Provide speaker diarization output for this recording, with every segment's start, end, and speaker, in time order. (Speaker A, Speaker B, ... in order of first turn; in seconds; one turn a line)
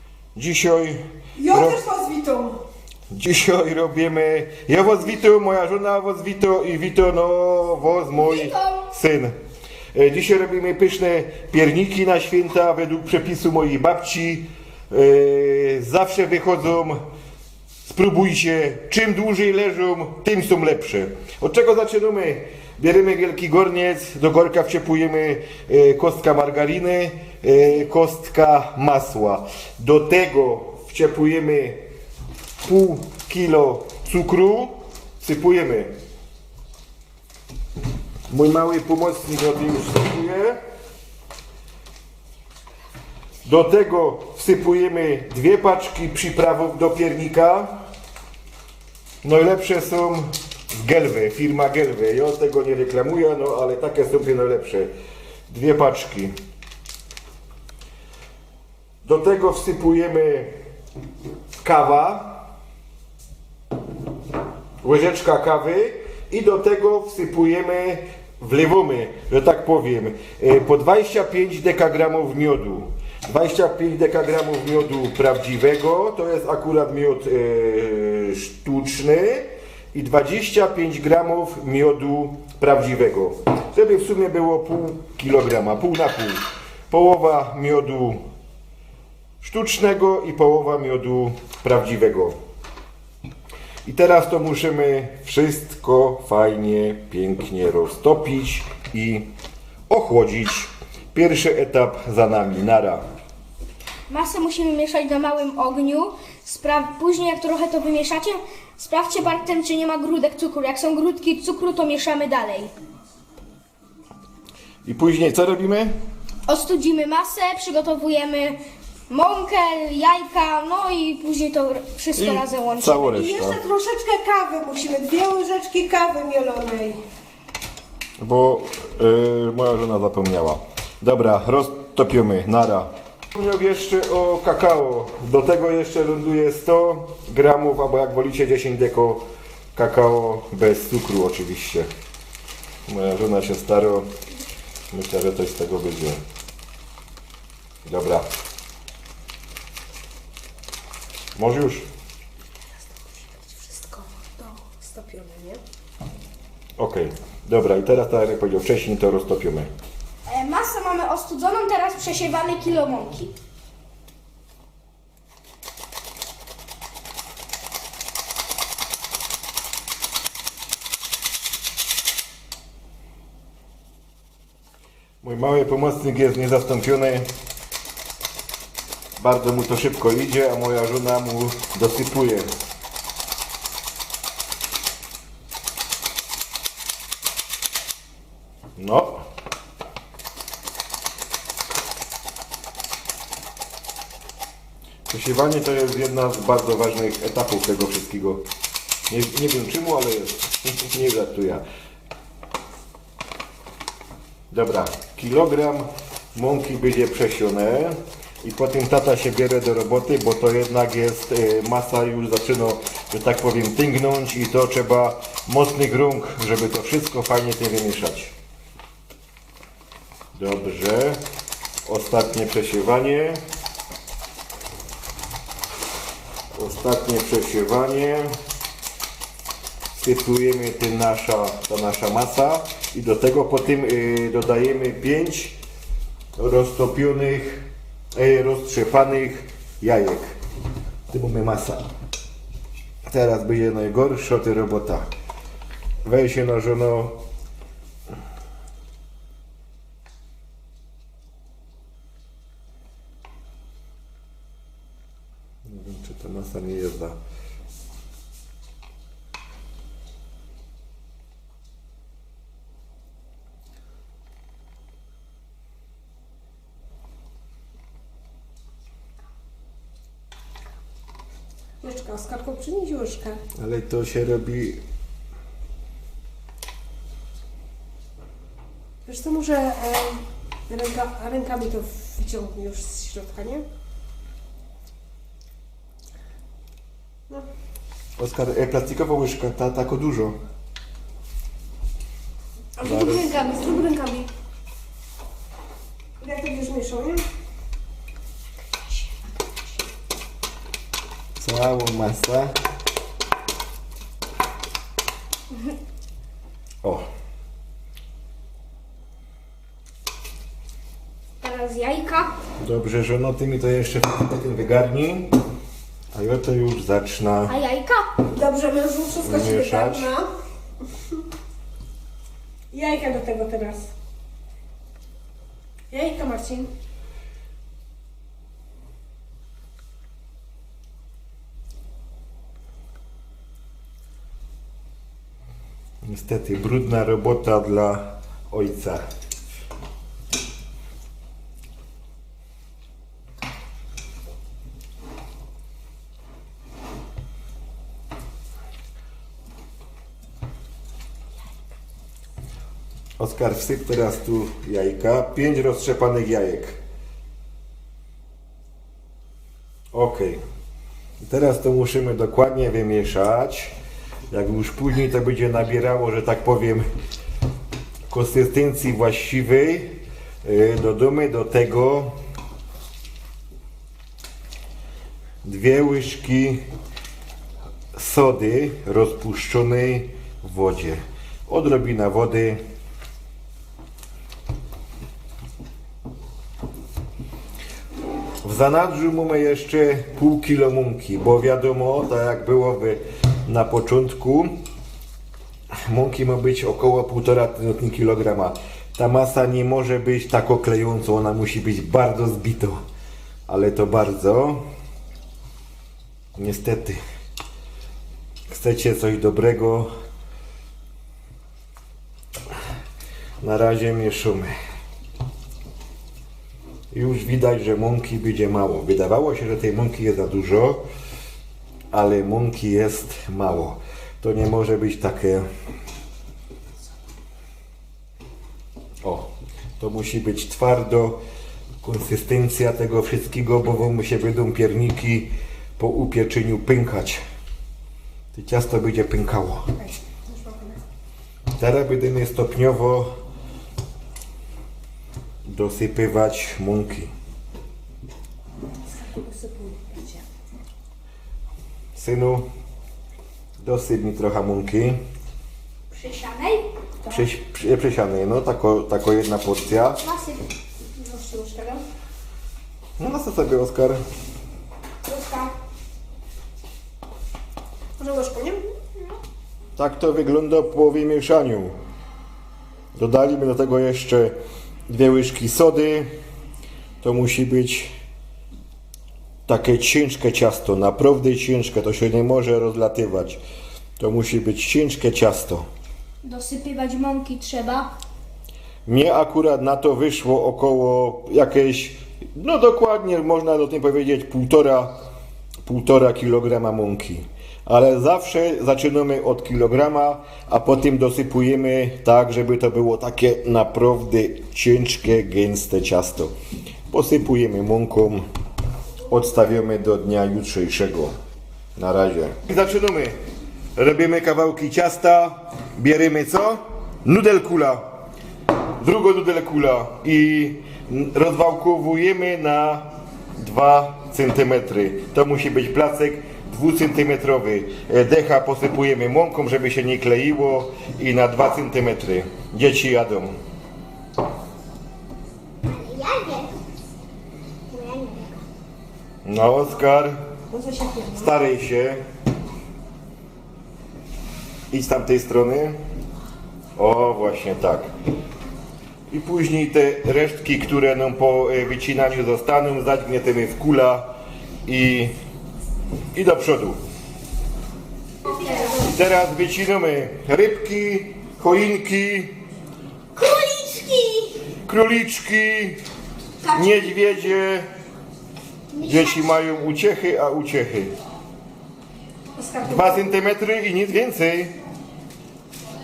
Speaker A: 0.3-1.8
Speaker B: 1.4-2.6
Speaker A: 3.1-9.3
Speaker C: 8.1-8.9
Speaker A: 9.9-17.0
Speaker A: 17.9-31.8
Speaker A: 32.6-35.9
Speaker A: 38.3-40.6
Speaker A: 43.4-47.7
Speaker A: 49.2-54.9
Speaker A: 55.5-56.3
Speaker A: 59.0-60.5
Speaker A: 61.6-62.5
Speaker A: 64.8-88.2
Speaker A: 89.4-92.3
Speaker A: 93.8-99.3
Speaker A: 99.9-103.0
Speaker C: 104.1-112.7
Speaker A: 114.8-115.9
Speaker C: 116.5-118.6
Speaker C: 119.1-123.2
Speaker A: 122.2-123.6
Speaker B: 123.1-127.0
Speaker A: 128.2-141.9
Speaker A: 142.9-144.1
Speaker A: 144.9-146.2
Speaker A: 147.8-148.2
Speaker A: 151.3-151.8
Speaker B: 152.8-155.6
Speaker A: 156.8-159.7
Speaker C: 160.2-163.3
Speaker A: 175.2-177.3
Speaker A: 179.2-182.5
Speaker A: 188.8-189.2
Speaker A: 195.1-198.4
Speaker A: 199.1-201.6
Speaker A: 204.5-218.3
Speaker A: 220.3-221.2
Speaker A: 221.8-223.4
Speaker A: 226.5-228.3
Speaker A: 230.0-235.5
Speaker A: 236.4-240.3
Speaker A: 241.1-241.8
Speaker A: 243.1-245.1
Speaker A: 246.0-247.2
Speaker A: 255.7-257.1
Speaker B: 271.8-273.4
Speaker A: 273.6-274.8
Speaker B: 279.1-283.6
Speaker A: 288.2-290.4
Speaker A: 292.8-293.4
Speaker C: 293.4-294.2
Speaker B: 296.2-297.2
Speaker A: 301.4-302.5
Speaker C: 311.4-312.3
Speaker A: 312.6-315.3
Speaker A: 316.1-317.6
Speaker C: 317.5-318.2
Speaker B: 318.3-320.3
Speaker A: 319.2-320.1
Speaker B: 322.7-323.9
Speaker B: 325.9-326.7
Speaker A: 336.0-339.0
Speaker A: 353.2-356.8
Speaker A: 359.9-360.4
Speaker A: 361.2-363.7
Speaker A: 364.3-366.9
Speaker A: 368.1-372.1
Speaker A: 375.4-376.6
Speaker A: 377.9-382.6
Speaker A: 388.4-394.5
Speaker A: 395.9-402.8
Speaker A: 403.5-404.6
Speaker A: 406.4-407.0
Speaker A: 408.5-409.9
Speaker A: 413.4-414.5
Speaker A: 416.9-420.8
Speaker A: 421.9-425.4
Speaker A: 429.0-429.3
Speaker A: 429.8-431.2
Speaker A: 431.8-437.2
Speaker A: 438.3-439.6
Speaker B: 439.8-440.8
Speaker A: 441.6-443.1
Speaker A: 445.4-447.1
Speaker B: 448.9-450.2
Speaker A: 451.9-452.4
Speaker A: 453.6-455.0
Speaker C: 455.9-456.7
Speaker A: 457.1-460.0
Speaker C: 460.0-460.4
Speaker B: 461.0-461.8
Speaker A: 463.0-464.0
Speaker C: 465.1-465.5
Speaker B: 468.0-468.6
Speaker A: 469.8-471.8
Speaker A: 472.9-474.3
Speaker A: 474.9-476.1
Speaker A: 477.0-477.9
Speaker A: 479.5-483.4
Speaker A: 484.0-485.6
Speaker C: 486.2-487.9
Speaker A: 488.9-494.9
Speaker A: 495.6-506.3
Speaker A: 506.9-508.2
Speaker A: 509.1-511.1
Speaker A: 511.8-513.1
Speaker A: 513.8-517.8
Speaker A: 518.8-522.9
Speaker A: 523.4-533.4
Speaker C: 535.6-536.5
Speaker C: 537.7-538.4
Speaker A: 539.2-540.2
Speaker B: 540.5-541.3
Speaker A: 541.1-542.0
Speaker A: 544.7-545.8
Speaker A: 546.8-547.9
Speaker A: 549.1-554.1
Speaker A: 554.6-555.1
Speaker A: 556.1-556.8
Speaker C: 558.2-558.9
Speaker A: 558.9-562.4
Speaker C: 563.2-564.4
Speaker A: 564.6-565.8
Speaker C: 566.4-567.3
Speaker A: 566.5-567.6
Speaker C: 568.7-569.3
Speaker A: 568.8-570.9
Speaker B: 572.4-573.1
Speaker A: 572.6-574.5